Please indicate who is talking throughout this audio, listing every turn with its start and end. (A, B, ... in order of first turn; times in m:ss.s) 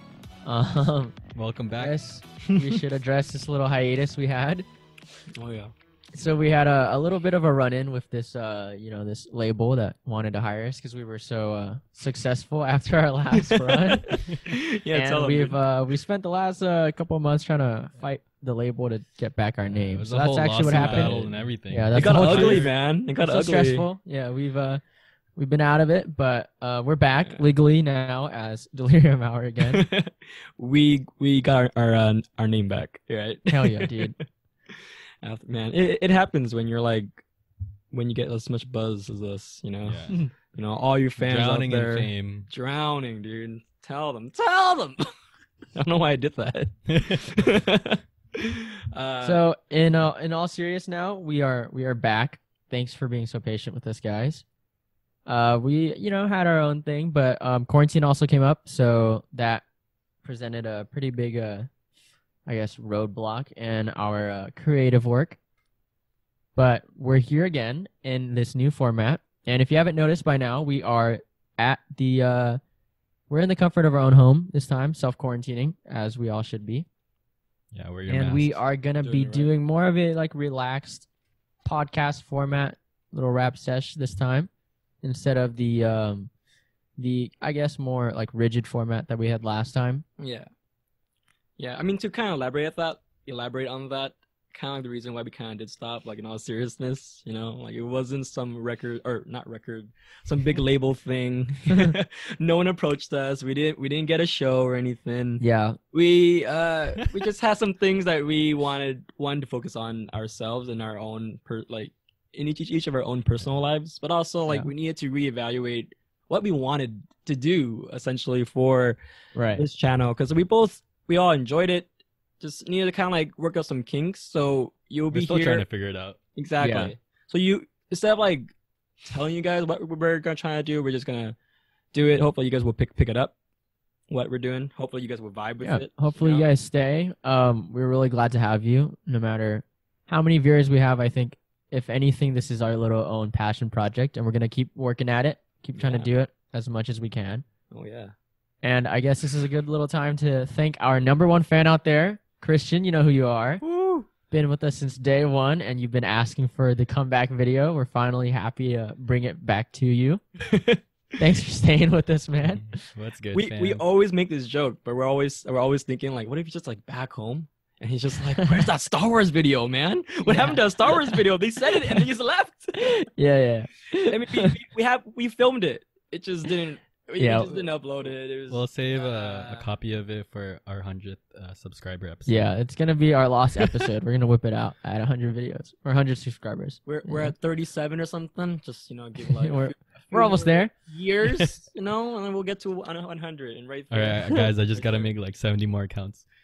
0:00.4-0:01.2 A
0:01.3-0:02.0 B
0:01.8-0:04.6 A
0:05.3-0:05.7 C
0:06.1-0:14.3 A
0:13.4-0:15.6 C
0:14.9-0:24.8 A
0:19.7-0:22.7 B
0:20.6-0:21.3 C
0:21.9-0:23.9 C
0:25.3-0:29.8 A
0:29.6-0:37.2 C
0:33.5-0:34.1 A
0:37.9-0:45.1 C
0:39.8-0:40.3 B
0:41.2-0:42.5 B
0:45.7-0:49.4 C
0:46.9-0:47.4 B
0:49.2-0:54.4 A
0:55.2-0:59.6 A
1:00.2-1:01.7 A
1:02.4-1:05.4 A
1:06.6-1:12.6 A
1:13.3-1:16.8 A
1:17.7-1:18.6 B
1:18.1-1:21.0 A
1:19.0-1:19.5 C
1:21.6-1:24.5 A
1:25.0-1:26.3 A
1:27.0-1:30.0 A
1:30.2-1:30.5 C
1:31.6-1:59.0 C
1:45.4-1:45.8 A
1:59.3-1:59.6 A
1:59.5-2:01.9 C
2:02.4-2:05.6 C
2:05.1-2:06.2 B
2:06.4-2:08.5 C
2:06.6-2:06.9 A
2:09.0-2:11.4 C
2:11.9-2:13.3 C
2:14.1-2:16.5 C
2:15.6-2:27.4 A
2:25.8-2:26.1 C
2:27.7-2:28.1 C
2:28.6-2:33.6 A
2:33.6-2:34.1 C
2:34.3-2:40.2 A
2:40.4-2:40.8 C
2:41.2-2:42.8 A
2:42.4-2:43.8 B
2:43.3-2:52.9 C
2:50.2-2:51.2 A
2:52.7-2:54.6 A
2:54.0-2:59.7 C
2:57.2-2:57.6 A
2:58.5-3:02.4 B
3:02.2-3:07.3 A
3:03.6-3:03.9 B
3:06.8-3:15.1 C
3:09.2-3:10.7 A
3:13.9-3:16.3 B